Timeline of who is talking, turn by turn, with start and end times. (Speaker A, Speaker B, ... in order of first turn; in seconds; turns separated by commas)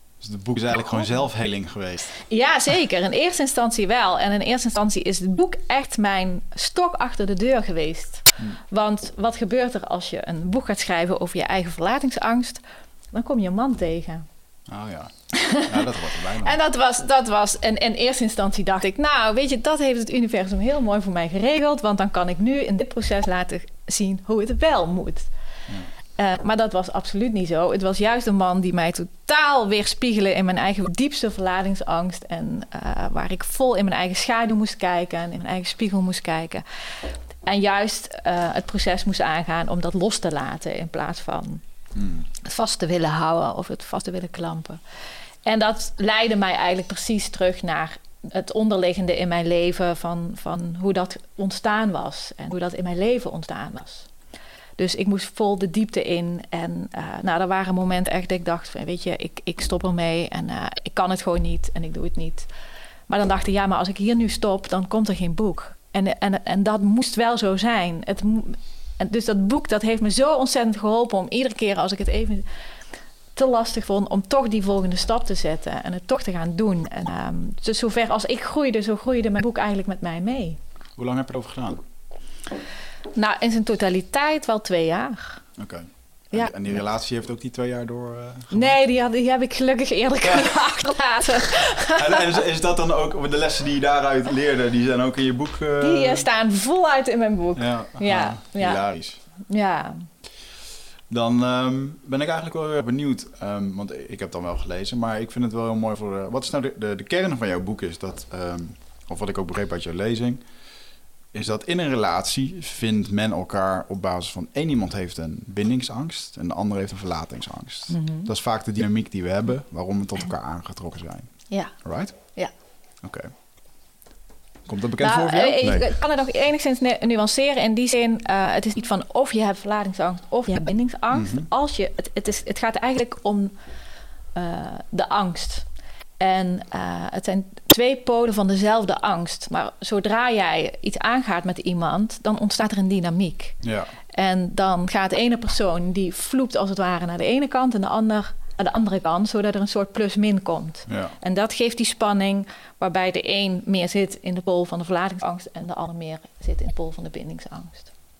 Speaker A: 0.2-2.2, Speaker B: 2.2-14.2, Speaker A: 14.7-16.6, Speaker B: 15.4-15.7, Speaker B: 16.4-25.3, Speaker B: 26.1-41.6, Speaker A: 41.9-42.3, Speaker B: 42.4-44.8, Speaker B: 45.4-54.1, Speaker B: 54.8-62.5, Speaker B: 63.1-72.4, Speaker B: 73.3-80.6, Speaker A: 81.0-81.8, Speaker B: 83.1-85.5, Speaker A: 85.6-88.7, Speaker B: 86.3-86.7, Speaker B: 88.5-92.2, Speaker A: 91.9-96.2, Speaker B: 95.8-100.1, Speaker A: 97.5-99.2, Speaker A: 101.1-110.7, Speaker A: 111.3-123.3, Speaker B: 117.9-118.3, Speaker B: 121.5-122.5, Speaker A: 124.7-125.5, Speaker B: 125.0-133.5, Speaker A: 131.1-131.5, Speaker B: 134.3-135.7, Speaker B: 136.2-157.9, Speaker A: 143.6-143.9, Speaker A: 150.9-151.1